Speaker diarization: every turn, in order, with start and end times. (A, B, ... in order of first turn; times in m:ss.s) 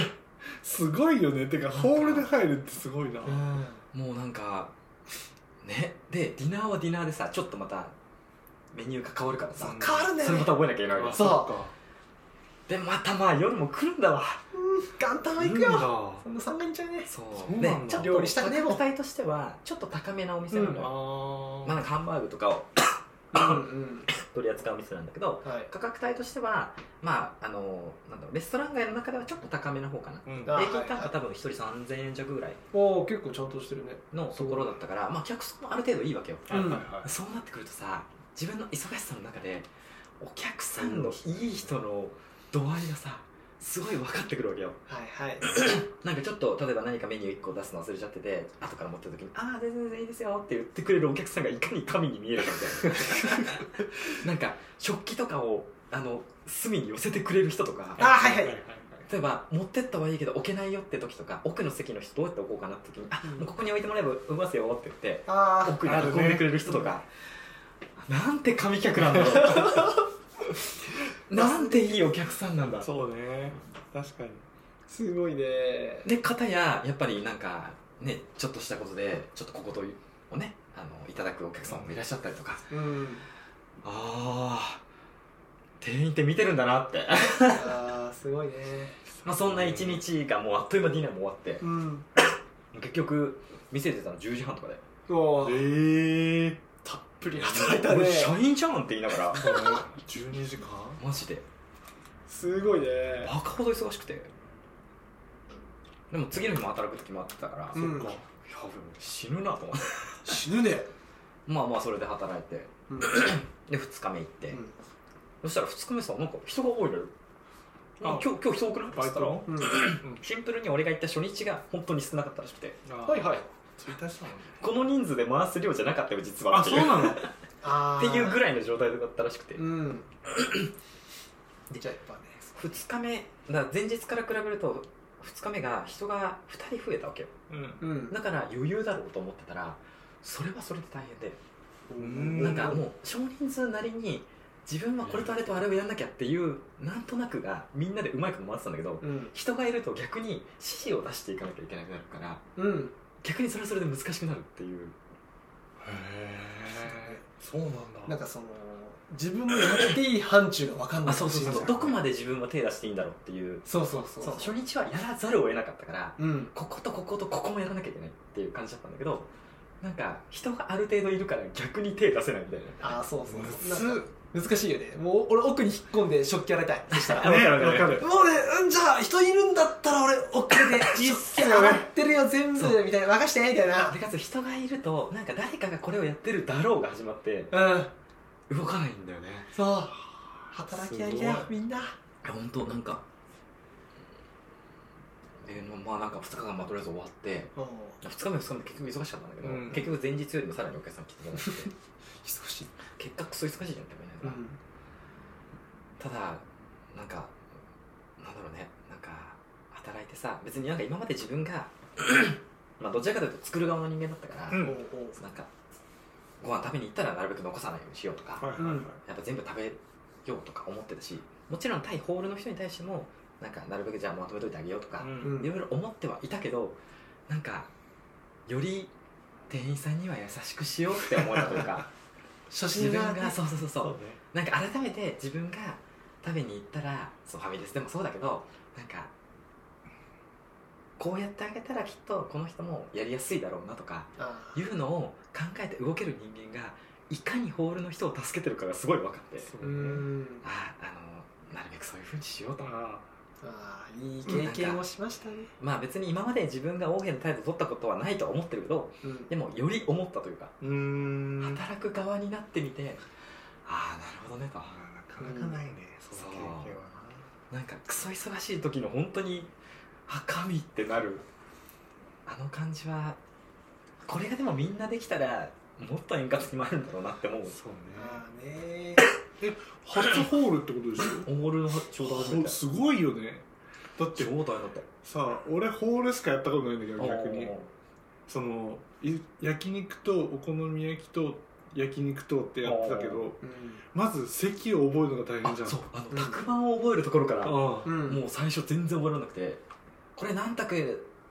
0:00.6-0:03.4 A
0:01.8-0:02.3 B
0:03.3-0:04.7 B
0:03.3-0:03.8 C
0:05.6-0:08.0 B
0:08.7-0:11.4 B
0:09.6-0:10.1 A
0:09.6-0:11.5 C
0:11.0-0:11.7 A
0:12.7-0:14.4 B
0:14.5-0:17.1 C
0:15.4-0:16.2 A
0:17.1-0:20.9 B
0:17.4-0:18.3 A
0:17.8-0:18.8 C
0:20.5-0:21.8 A
0:21.6-0:32.6 B
0:23.3-0:24.1 C
0:25.4-0:25.7 C
0:30.3-0:30.6 A
0:30.5-0:31.1 C
0:32.7-0:34.8 C
0:34.1-0:39.7 B
0:36.5-0:37.1 A
0:36.5-0:36.8 C
0:40.2-0:44.8 B
0:40.8-0:41.7 A
0:44.9-0:45.4 C
0:45.4-0:58.2 B
0:58.0-0:59.1 A
0:58.0-0:58.6 C
0:59.1-1:07.1 B
1:03.2-1:03.5 C
1:05.3-1:05.8 C
1:05.8-1:06.5 A
1:08.0-1:10.0 B
1:09.6-1:09.9 C
1:11.3-1:12.9 B
1:11.3-1:12.2 C
1:12.8-1:14.4 A
1:14.9-1:16.1 C
1:16.0-1:22.7 B
1:21.7-1:21.9 A
1:22.7-1:23.2 C
1:23.8-1:24.8 B
1:25.8-1:27.8 B
1:27.5-1:29.0 C
1:29.1-1:30.0 A
1:29.2-1:31.6 B
1:31.6-1:32.1 C
1:32.7-1:34.8 B
1:35.1-1:35.7 C
1:35.4-1:36.6 A
1:36.8-1:38.4 C
1:37.3-1:39.5 B
1:39.3-1:41.0 A
1:41.0-1:41.4 B
1:42.3-1:43.3 C
1:43.2-1:44.3 B
1:46.1-1:50.4 B
1:47.7-1:48.2 C
1:47.8-1:48.2 A
1:50.2-1:50.9 C
1:51.5-1:54.6 B
1:52.9-1:53.3 C
1:55.4-1:57.1 B
1:58.0-2:02.8 B
1:58.9-2:00.2 A
1:59.5-1:59.9 C
2:02.9-2:04.7 A
2:03.0-2:03.5 C
2:04.6-2:07.4 B
2:06.5-2:07.3 A
2:07.6-2:08.4 C
2:07.9-2:09.6 B
2:09.6-2:10.1 C
2:11.8-2:12.4 C
2:12.5-2:17.3 B
2:17.5-2:17.8 A
2:17.8-2:18.2 C
2:18.1-2:21.4 B
2:21.9-2:22.8 C
2:22.0-2:22.8 A
2:22.4-2:32.4 B
2:25.0-2:25.4 A
2:29.0-2:29.3 C
2:32.6-2:33.0 C
2:33.2-2:35.0 B
2:35.8-2:38.2 A
2:36.8-2:37.2 C
2:38.1-2:41.9 C
2:41.1-2:49.3 B
2:41.5-2:41.9 A
2:43.6-2:44.6 C
2:46.2-2:46.5 C
2:49.8-2:53.0 B
2:52.8-3:04.0 C
2:53.3-2:54.1 A
2:56.9-2:57.6 B
2:57.1-2:58.1 A
3:00.8-3:01.9 A
3:02.6-3:02.8 B
3:03.8-3:07.6 B
3:07.5-3:07.9 C
3:08.5-3:09.5 B
3:09.5-3:10.0 C
3:10.5-3:12.0 C
3:10.7-3:11.5 A
3:12.2-3:13.0 B
3:15.4-3:21.7 B
3:17.6-3:18.0 C
3:19.4-3:19.9 A
3:21.4-3:21.7 C
3:22.2-3:22.7 C
3:23.0-3:24.4 B
3:24.2-3:24.6 C
3:26.0-3:27.3 B
3:28.2-3:35.5 B
3:34.5-3:34.8 A
3:34.6-3:35.2 C
3:36.4-3:47.7 B
3:38.4-3:39.0 A
3:38.6-3:38.9 C
3:45.0-3:45.4 A
3:45.2-3:45.5 C
3:48.5-3:48.9 B
3:49.5-3:51.9 B
3:52.5-3:53.4 C
3:52.7-3:59.1 B
3:53.8-3:54.2 A
4:01.0-4:09.5 B
4:04.2-4:04.6 C
4:09.4-4:10.0 A
4:09.6-4:10.4 C
4:10.4-4:12.7 B
4:12.6-4:13.1 A
4:13.4-4:15.5 C
4:14.3-4:14.8 B
4:15.6-4:20.6 B
4:19.0-4:19.3 C
4:20.6-4:21.6 A
4:21.4-4:23.0 B
4:23.6-4:24.8 B
4:24.6-4:27.3 A
4:25.2-4:25.6 C
4:26.1-4:26.8 B
4:27.5-4:29.5 B
4:30.1-4:31.3 B
4:32.3-4:33.2 B
4:34.1-4:37.6 B
4:37.5-4:38.2 A
4:38.0-4:39.1 C
4:39.4-4:41.3 A
4:41.2-4:42.6 B
4:42.0-4:43.5 A
4:44.0-4:44.3 A
4:44.2-4:44.9 B
4:45.0-4:47.5 A
4:47.0-4:47.7 B
4:48.3-4:53.4 A
4:52.6-4:53.3 B
4:53.4-4:53.8 C
4:53.9-4:55.8 A
4:55.4-4:59.6 B
4:56.1-4:56.4 C
4:57.4-4:57.9 A
4:57.8-4:58.2 C
5:00.2-5:01.1 B